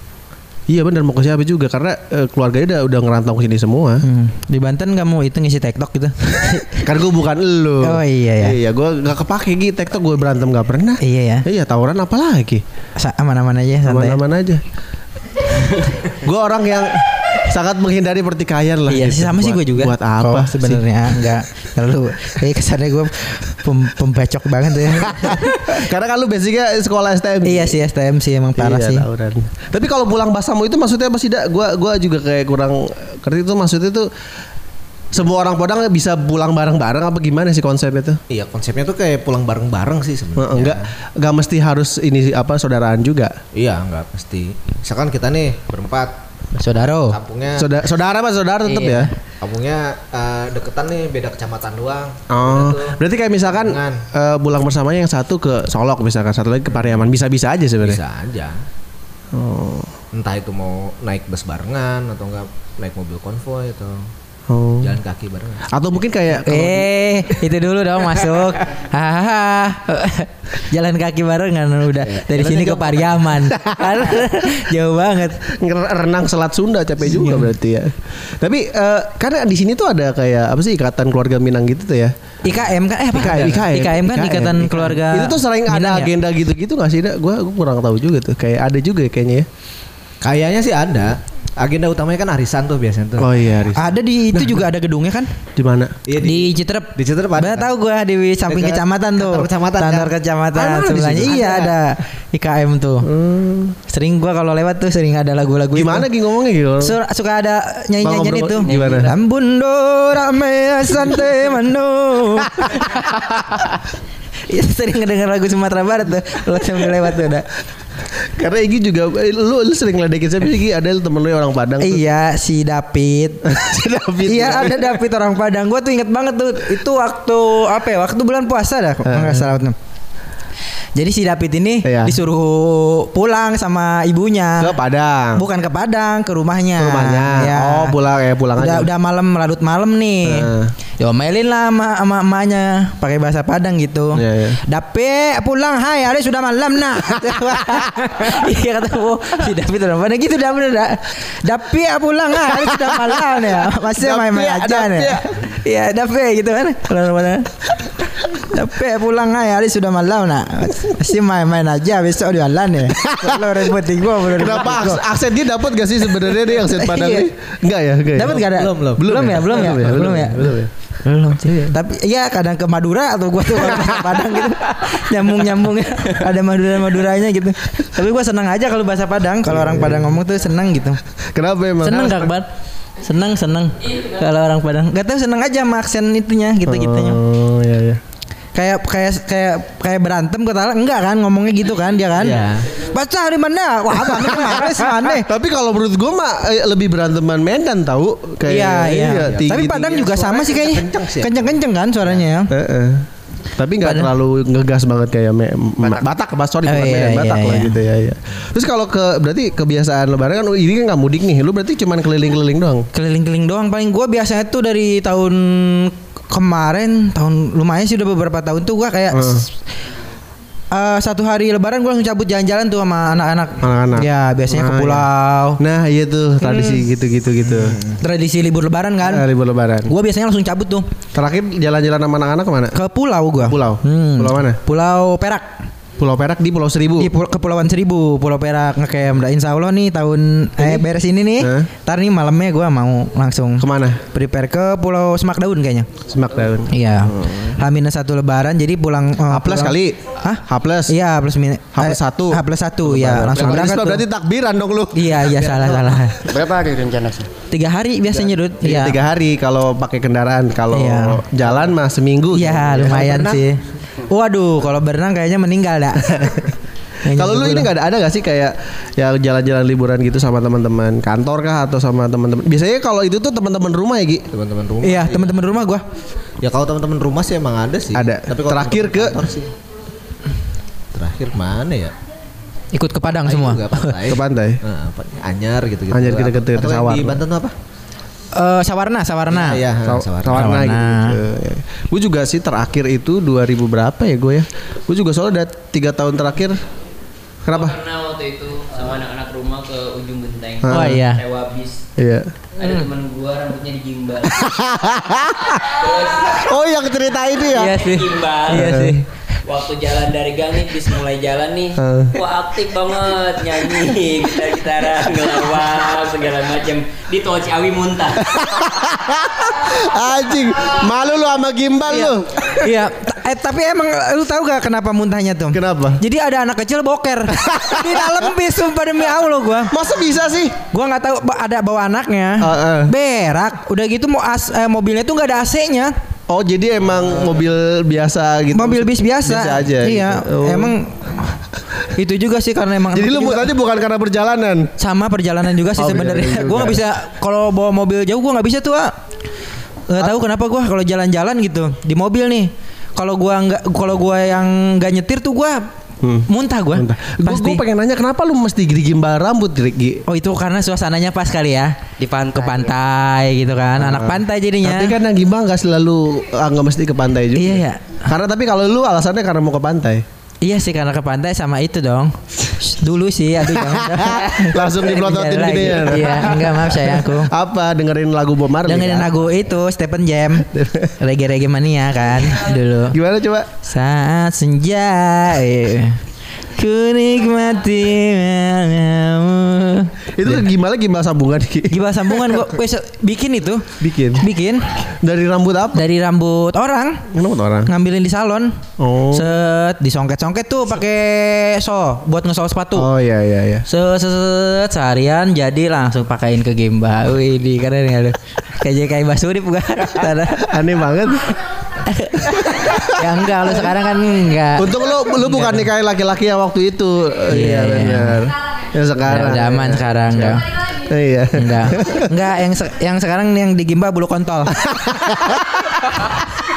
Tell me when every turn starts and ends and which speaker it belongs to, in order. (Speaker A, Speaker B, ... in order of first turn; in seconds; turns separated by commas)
Speaker A: 0.7-4.0, Speaker B: 4.0-6.8, Speaker A: 6.8-12.6, Speaker B: 7.8-8.6, Speaker B: 11.0-11.4, Speaker B: 13.0-14.2, Speaker A: 13.8-14.6, Speaker A: 16.0-21.3, Speaker B: 18.9-25.8, Speaker A: 25.1-27.8, Speaker B: 27.4-29.1, Speaker A: 28.6-34.1, Speaker A: 35.1-38.2, Speaker C: 38.3-40.9, Speaker A: 40.4-43.4, Speaker C: 43.5-46.1, Speaker B: 46.6-47.2, Speaker C: 47.0-47.7, Speaker A: 47.5-49.1, Speaker B: 48.6-49.1, Speaker C: 49.4-54.0, Speaker A: 52.3-58.0, Speaker C: 57.8-58.6, Speaker A: 59.3-59.9, Speaker C: 60.1-64.1, Speaker A: 64.5-65.0, Speaker C: 64.8-65.7, Speaker A: 65.7-66.9, Speaker B: 66.4-75.4, Speaker A: 72.3-72.9, Speaker A: 73.5-74.2, Speaker A: 75.5-82.1, Speaker B: 77.0-77.5, Speaker B: 82.4-86.1, Speaker C: 82.5-83.3, Speaker A: 83.1-89.5, Speaker C: 90.2-93.9, Speaker A: 93.2-94.6, Speaker B: 93.8-95.3, Speaker A: 95.6-95.9, Speaker C: 96.0-97.7, Speaker B: 96.2-103.1, Speaker C: 98.5-100.1, Speaker A: 100.5-101.5, Speaker C: 101.2-101.8, Speaker A: 103.0-103.8, Speaker B: 103.9-106.1, Speaker A: 105.7-107.0, Speaker B: 106.8-113.8, Speaker A: 108.0-109.1, Speaker D: 108.6-109.1, Speaker B: 114.5-117.5, Speaker A: 118.3-122.0, Speaker B: 121.8-123.4, Speaker A: 123.5-125.0, Speaker B: 124.2-129.8, Speaker A: 129.0-129.6, Speaker B: 130.9-134.7, Speaker A: 131.8-132.2, Speaker A: 134.6-135.4, Speaker B: 135.3-137.9, Speaker A: 136.8-138.9, Speaker B: 138.6-157.7, Speaker A: 140.2-140.7, Speaker A: 144.1-144.6, Speaker A: 154.0-155.4, Speaker B: 158.4-165.0, Speaker A: 163.0-163.6, Speaker A: 164.3-170.7, Speaker B: 166.8-167.2, Speaker B: 168.1-181.0, Speaker C: 168.3-169.0, Speaker A: 173.5-174.4, Speaker A: 179.4-180.2, Speaker A: 181.3-182.3, Speaker B: 181.8-182.5, Speaker B: 183.0-187.2, Speaker A: 186.6-188.0, Speaker B: 188.5-195.3, Speaker C: 192.2-192.7, Speaker A: 194.1-200.1, Speaker B: 198.4-202.5, Speaker C: 199.2-202.2, Speaker A: 202.5-212.9, Speaker B: 203.8-204.1, Speaker B: 206.6-207.8, Speaker B: 212.9-219.4, Speaker A: 219.1-219.4, Speaker B: 220.7-225.6, Speaker A: 223.6-225.1, Speaker A: 225.6-227.8, Speaker B: 226.4-226.8, Speaker C: 227.6-228.0, Speaker B: 228.0-229.3, Speaker A: 229.0-229.9, Speaker B: 229.9-230.9, Speaker A: 231.1-232.8, Speaker B: 232.7-235.5, Speaker A: 233.4-234.6, Speaker A: 236.0-237.1, Speaker B: 237.0-245.9, Speaker A: 240.6-240.9, Speaker A: 241.4-241.7, Speaker A: 243.6-244.0, Speaker A: 246.1-247.6, Speaker B: 246.7-254.0, Speaker A: 249.3-250.9, Speaker A: 251.8-255.3, Speaker B: 254.9-256.2, Speaker C: 255.3-256.0, Speaker D: 256.2-257.3, Speaker B: 257.5-259.0, Speaker A: 258.1-263.3, Speaker B: 260.7-261.2, Speaker B: 262.3-266.2, Speaker C: 262.8-263.4, Speaker A: 266.1-266.4, Speaker B: 267.0-267.7, Speaker A: 267.1-274.3, Speaker C: 274.3-275.6, Speaker B: 274.8-275.8, Speaker C: 276.4-279.5, Speaker A: 277.9-279.2, Speaker C: 280.9-281.9, Speaker B: 282.7-284.0, Speaker C: 283.2-287.5, Speaker A: 284.1-284.6, Speaker A: 285.9-287.2, Speaker B: 288.4-289.6, Speaker C: 289.3-290.5, Speaker A: 289.8-296.6, Speaker B: 290.3-291.1, Speaker A: 297.4-297.8, Speaker E: 297.5-301.8, Speaker A: 300.6-301.0, Speaker B: 300.7-301.2, Speaker A: 302.0-302.3, Speaker E: 302.6-304.5, Speaker A: 304.3-305.7, Speaker E: 305.7-306.5, Speaker A: 306.3-307.8, Speaker E: 307.3-308.8, Speaker B: 307.5-309.0, Speaker A: 308.5-309.0, Speaker E: 309.4-318.3, Speaker A: 311.8-312.1, Speaker A: 318.2-322.7, Speaker B: 321.9-329.7, Speaker A: 325.5-326.0, Speaker A: 327.3-328.3, Speaker A: 329.7-330.6, Speaker B: 330.7-335.9, Speaker A: 332.4-332.9, Speaker A: 336.3-340.8, Speaker B: 338.5-341.3, Speaker B: 341.9-343.5, Speaker A: 342.9-344.7, Speaker B: 344.8-348.9, Speaker A: 345.7-346.8, Speaker B: 349.9-355.6, Speaker A: 356.0-360.0, Speaker B: 356.3-357.6, Speaker B: 360.1-361.8, Speaker D: 362.0-362.7, Speaker B: 362.3-364.9, Speaker A: 363.8-370.0, Speaker B: 367.3-368.0, Speaker B: 370.4-377.3, Speaker A: 373.6-379.1, Speaker B: 378.6-380.5, Speaker A: 380.5-380.9, Speaker B: 381.0-383.0, Speaker A: 382.9-383.5, Speaker B: 383.6-386.0, Speaker B: 386.6-390.4, Speaker A: 390.1-392.4, Speaker B: 391.7-393.7, Speaker A: 393.8-394.2, Speaker B: 394.2-394.7, Speaker A: 395.0-395.8, Speaker B: 395.7-397.0, Speaker A: 397.1-397.7, Speaker B: 397.7-398.6, Speaker A: 398.8-399.3, Speaker B: 399.1-402.9, Speaker A: 402.7-403.7, Speaker B: 403.7-410.5, Speaker A: 410.4-411.4, Speaker B: 411.9-415.7, Speaker A: 412.6-413.6, Speaker A: 414.6-422.1, Speaker B: 417.3-418.2, Speaker B: 419.0-420.4, Speaker B: 421.4-424.7, Speaker A: 424.5-426.1